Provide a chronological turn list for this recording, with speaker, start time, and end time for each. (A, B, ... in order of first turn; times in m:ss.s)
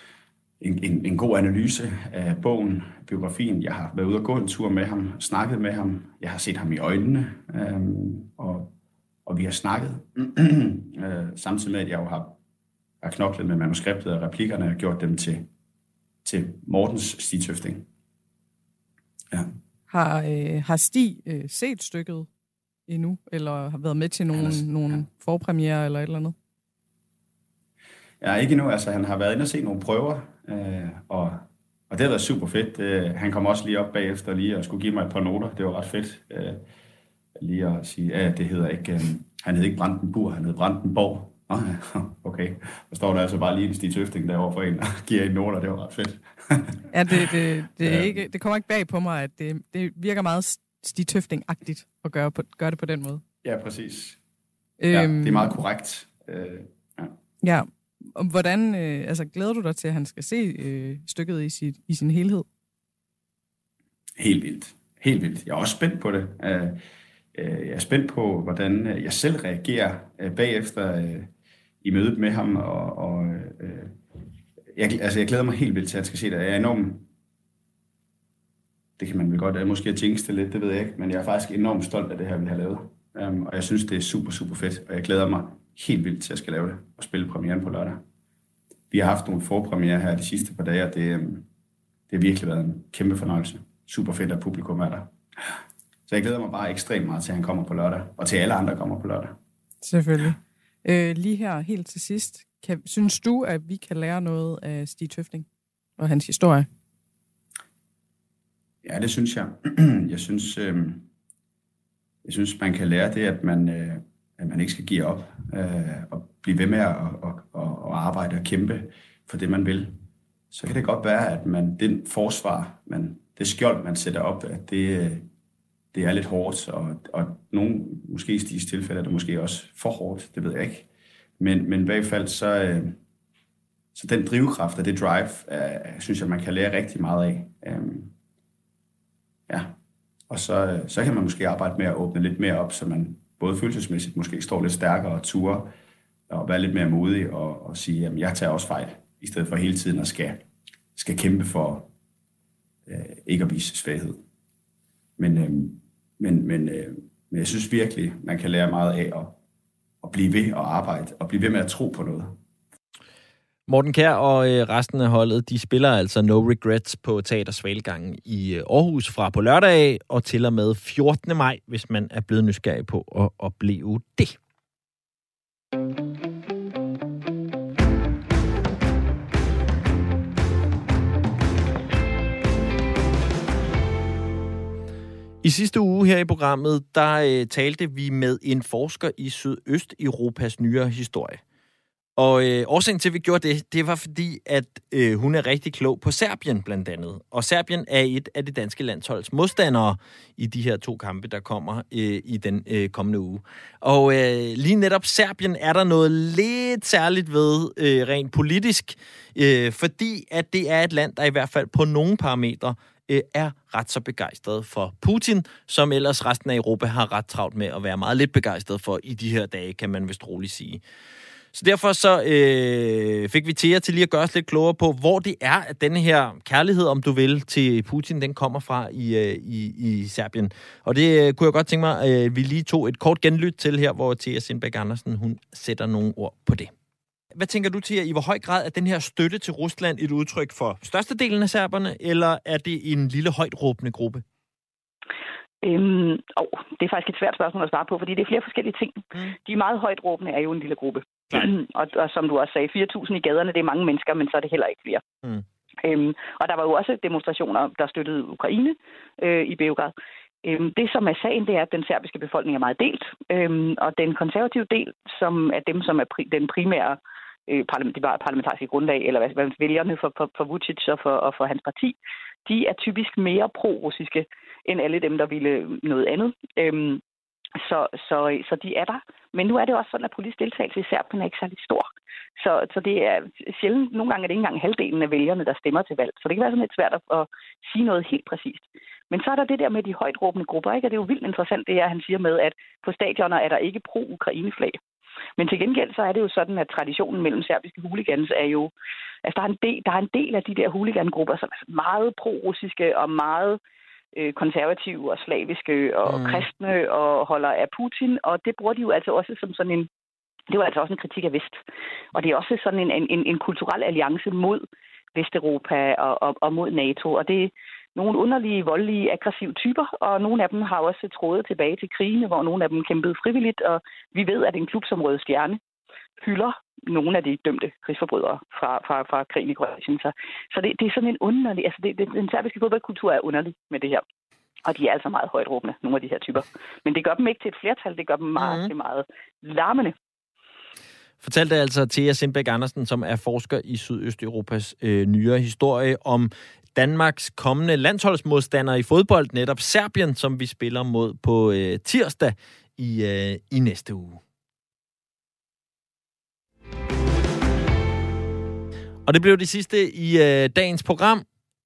0:00.6-0:08.7 A
0:09.3-0:12.4 A
0:13.0-0:15.5 A
0:16.2-0:17.9 A
0:19.9-0:22.3 B
0:22.9-0:26.4 B
0:24.3-0:25.1 A
0:28.2-0:36.6 A
0:37.4-0:47.2 A
0:46.9-0:53.2 B
0:47.8-0:48.2 A
0:53.4-0:54.2 A
0:54.8-0:55.6 B
0:54.9-0:57.2 A
0:57.4-1:02.5 B
1:04.2-1:06.8 A
1:07.4-1:11.3 A
1:11.8-1:13.9 A
1:14.8-1:17.1 A
1:19.0-1:28.0 A
1:28.9-1:31.5 A
1:32.1-1:35.1 A
1:36.1-1:39.4 A
1:39.8-1:45.5 B
1:46.0-1:46.7 B
1:48.8-1:51.1 A
1:52.2-2:00.0 A
2:00.5-2:05.3 A
2:05.9-2:10.9 A
2:11.4-2:13.0 A
2:14.0-2:18.1 A
2:19.5-2:19.7 A
2:20.3-2:25.7 A
2:26.3-2:30.4 A
2:31.0-2:31.9 A
2:32.9-2:34.2 A
2:35.2-2:39.4 A
2:40.0-2:42.4 A
2:43.7-2:54.4 C
3:05.4-3:11.4 C
3:12.2-3:40.8 C
3:41.5-3:56.7 C
3:57.4-4:04.2 C
4:05.6-4:15.0 D
4:15.8-4:37.0 D
4:37.6-4:41.9 D
4:42.4-4:54.8 D
4:55.4-4:58.7 D
4:59.2-5:03.6 D
5:04.2-5:09.9 D
5:06.1-5:06.5 C
5:10.5-5:11.6 D
5:12.1-5:25.6 D
5:26.2-5:34.0 D
5:34.6-5:40.0 D
5:38.4-5:38.7 C
5:41.2-5:54.2 C
5:59.1-6:01.3 C